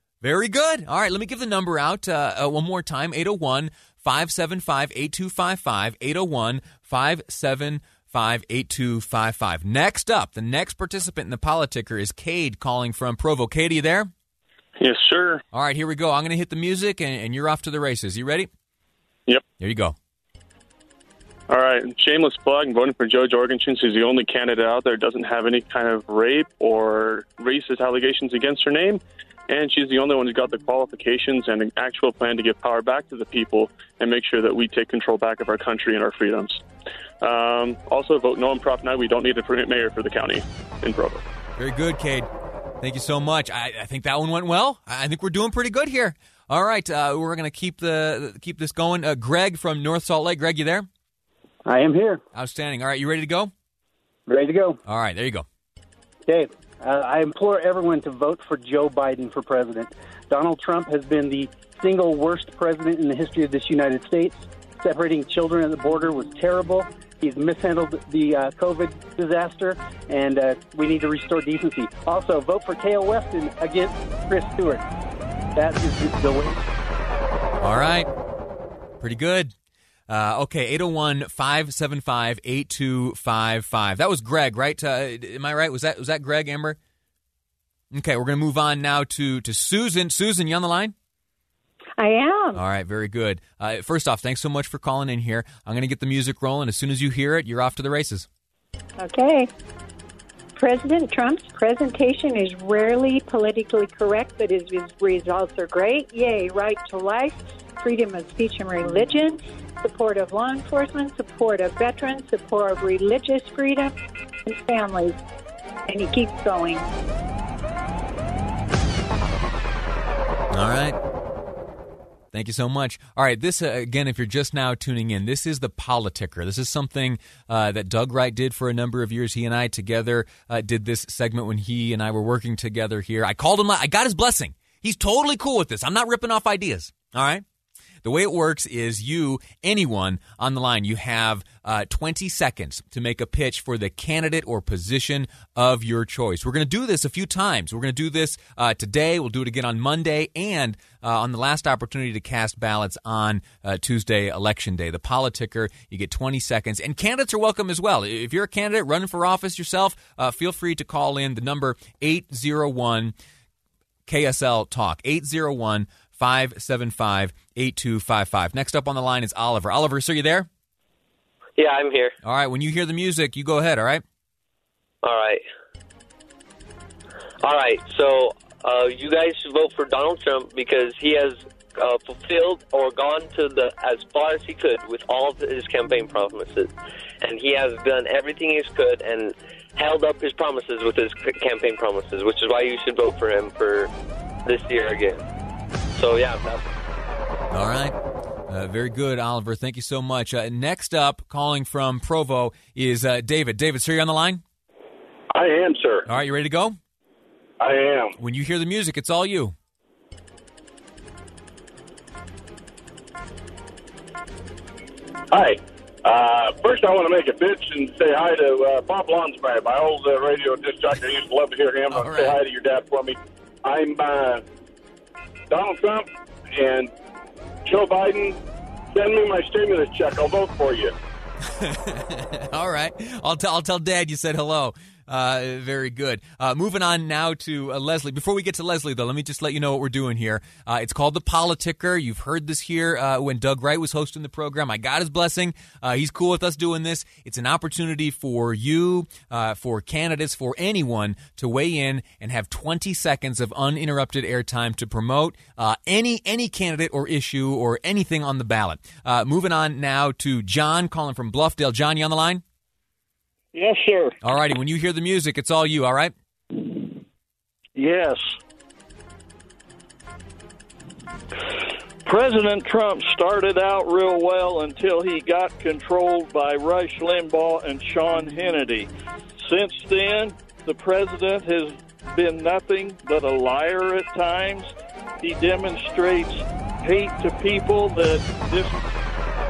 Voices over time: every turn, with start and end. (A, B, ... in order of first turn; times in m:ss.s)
0:00.2-0:14.1 A
0:14.8-0:15.4 B
0:15.5-0:18.5 A
0:19.6-0:19.9 A
0:21.5-0:36.6 B
0:37.2-0:41.2 B
0:41.6-0:42.3 A
0:42.8-0:50.9 A
0:51.6-0:52.2 C
0:52.3-0:53.5 A
0:54.3-0:54.8 C
0:54.8-0:55.4 A
0:56.3-1:14.8 C
1:15.5-1:16.6 C
1:17.6-1:18.1 A
1:19.0-1:19.5 A
1:20.1-1:26.8 A
1:27.9-1:30.9 A
1:32.0-1:32.6 D
1:32.5-1:38.3 A
1:39.0-1:39.5 D
1:40.6-1:53.9 D
1:54.4-1:55.2 D
1:55.9-1:56.9 D
2:00.5-2:01.0 A
2:02.3-2:17.4 A
2:18.0-2:43.1 A
2:44.1-2:50.5 A
2:51.6-2:52.1 E
2:52.2-2:54.0 A
2:55.0-2:55.4 E
2:57.4-3:13.9 E
3:14.4-3:15.2 E
3:16.0-3:16.6 E
3:17.5-3:17.9 A
3:18.5-3:24.4 A
3:25.3-3:26.0 F
3:26.1-3:26.8 A
3:27.6-3:28.1 F
3:28.2-3:29.5 A
3:35.3-3:44.4 F
3:41.9-3:42.4 A
3:45.5-3:46.9 F
3:47.6-3:48.4 F
3:48.9-3:50.9 F
3:51.6-4:22.4 A
4:23.5-4:24.1 G
4:24.2-4:26.1 A
4:27.8-4:28.2 G
4:32.0-4:38.9 G
4:39.4-4:44.7 G
4:45.2-4:48.8 G